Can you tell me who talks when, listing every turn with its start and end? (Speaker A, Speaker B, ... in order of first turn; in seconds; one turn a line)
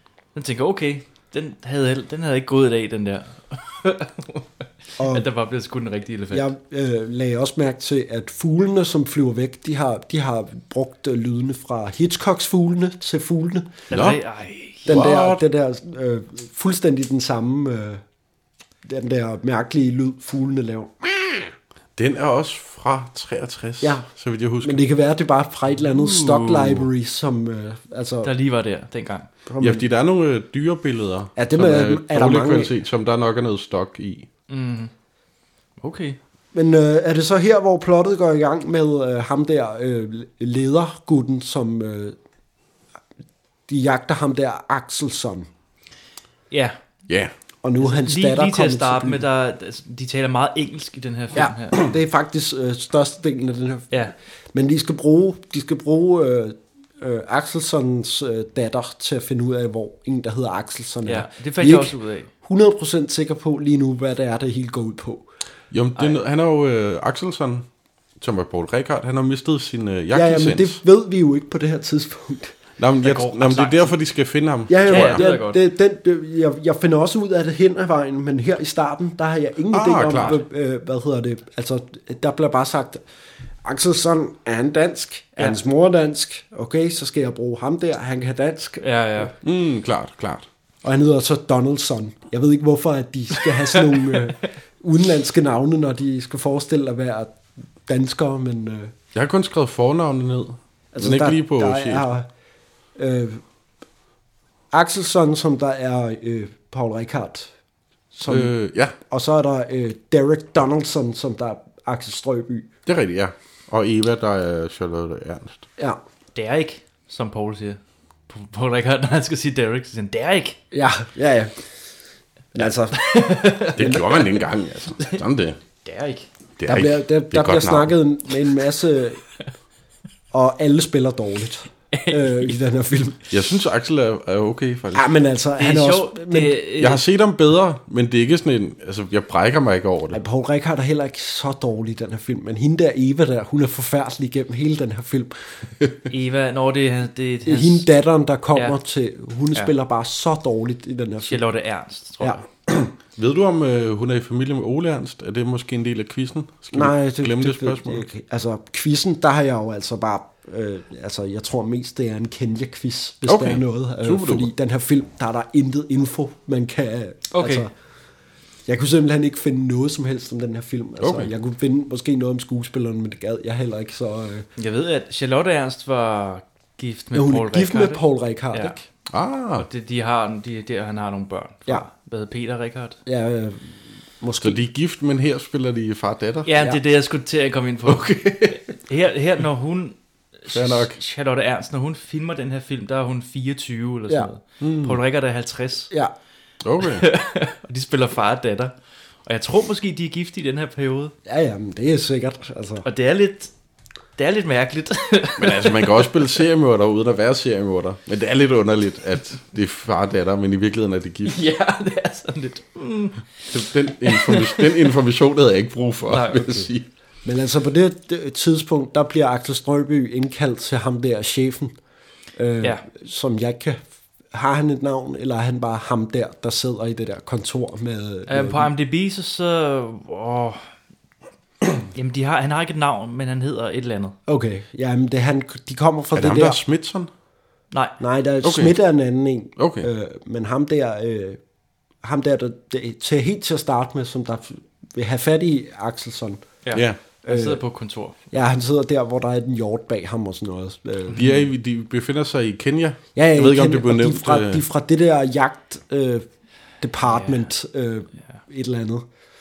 Speaker A: 0.3-6.5
Speaker B: 5.0-5.3
Speaker B: 6.3-13.8
Speaker A: 13.9-14.9
Speaker C: 13.9-14.2
Speaker C: 14.8-15.4
Speaker B: 14.9-18.0
Speaker B: 18.8-21.5
Speaker C: 22.0-24.9
Speaker B: 23.8-24.1
Speaker B: 24.6-28.3
Speaker A: 26.0-26.4
Speaker A: 28.2-29.3
Speaker B: 29.5-29.9
Speaker C: 29.6-34.3
Speaker B: 31.4-32.8
Speaker A: 34.5-34.9
Speaker A: 35.8-36.2
Speaker B: 36.5-42.2
Speaker B: 43.7-45.5
Speaker A: 46.5-46.8
Speaker B: 47.6-49.2
Speaker A: 47.8-51.9
Speaker B: 51.3-65.3
Speaker A: 61.0-62.3
Speaker C: 65.7-67.7
Speaker C: 68.2-70.8
Speaker B: 70.1-72.6
Speaker C: 72.8-75.2
Speaker A: 73.0-73.9
Speaker B: 74.7-83.0
Speaker A: 74.9-75.6
Speaker C: 79.7-80.3
Speaker B: 83.6-89.3
Speaker A: 88.8-89.3
Speaker C: 89.4-90.5
Speaker B: 90.8-98.9
Speaker A: 93.4-94.2
Speaker C: 99.1-102.1
Speaker B: 100.9-102.3
Speaker B: 103.0-103.4
Speaker B: 104.7-107.5
Speaker B: 108.1-112.7
Speaker C: 108.3-109.0
Speaker C: 112.9-115.7
Speaker A: 116.3-120.6
Speaker B: 120.7-121.5
Speaker B: 122.5-123.1
Speaker A: 122.9-124.2
Speaker C: 123.8-125.6
Speaker B: 123.8-124.0
Speaker A: 125.8-126.3
Speaker C: 126.6-127.9
Speaker B: 126.7-129.2
Speaker B: 130.3-133.2
Speaker A: 131.9-132.5
Speaker C: 133.3-135.1
Speaker B: 134.9-136.6
Speaker A: 135.6-137.0
Speaker C: 136.8-140.2
Speaker B: 140.1-145.7
Speaker A: 146.1-147.9
Speaker B: 147.4-151.4
Speaker A: 151.3-152.4
Speaker C: 152.7-158.0
Speaker B: 156.7-167.7
Speaker C: 163.3-164.5
Speaker A: 167.3-167.7
Speaker B: 168.7-174.5
Speaker C: 171.0-171.3
Speaker A: 174.6-178.8
Speaker B: 177.1-178.8
Speaker C: 179.1-179.7
Speaker A: 179.6-183.0
Speaker B: 183.1-184.6
Speaker C: 184.4-186.5
Speaker A: 186.5-195.9
Speaker C: 187.9-188.6
Speaker C: 190.5-191.0
Speaker C: 194.6-195.0
Speaker C: 196.6-197.1
Speaker A: 196.9-198.8
Speaker A: 199.3-201.1
Speaker B: 201.3-202.9
Speaker A: 202.8-203.5
Speaker A: 204.2-206.1
Speaker C: 205.4-211.4
Speaker A: 211.3-213.2
Speaker C: 213.5-216.8
Speaker A: 214.1-214.6
Speaker A: 216.1-216.7
Speaker B: 217.2-221.8
Speaker B: 222.4-228.7
Speaker A: 228.3-230.7
Speaker A: 231.9-234.2
Speaker B: 234.3-236.6
Speaker C: 236.2-237.1
Speaker B: 238.0-241.4
Speaker C: 238.4-238.7
Speaker C: 239.6-239.9
Speaker B: 242.0-246.4
Speaker A: 246.7-248.3
Speaker B: 247.2-247.6
Speaker B: 248.3-251.4
Speaker C: 251.1-254.6
Speaker B: 253.2-256.3
Speaker B: 256.8-259.1
Speaker A: 257.0-257.5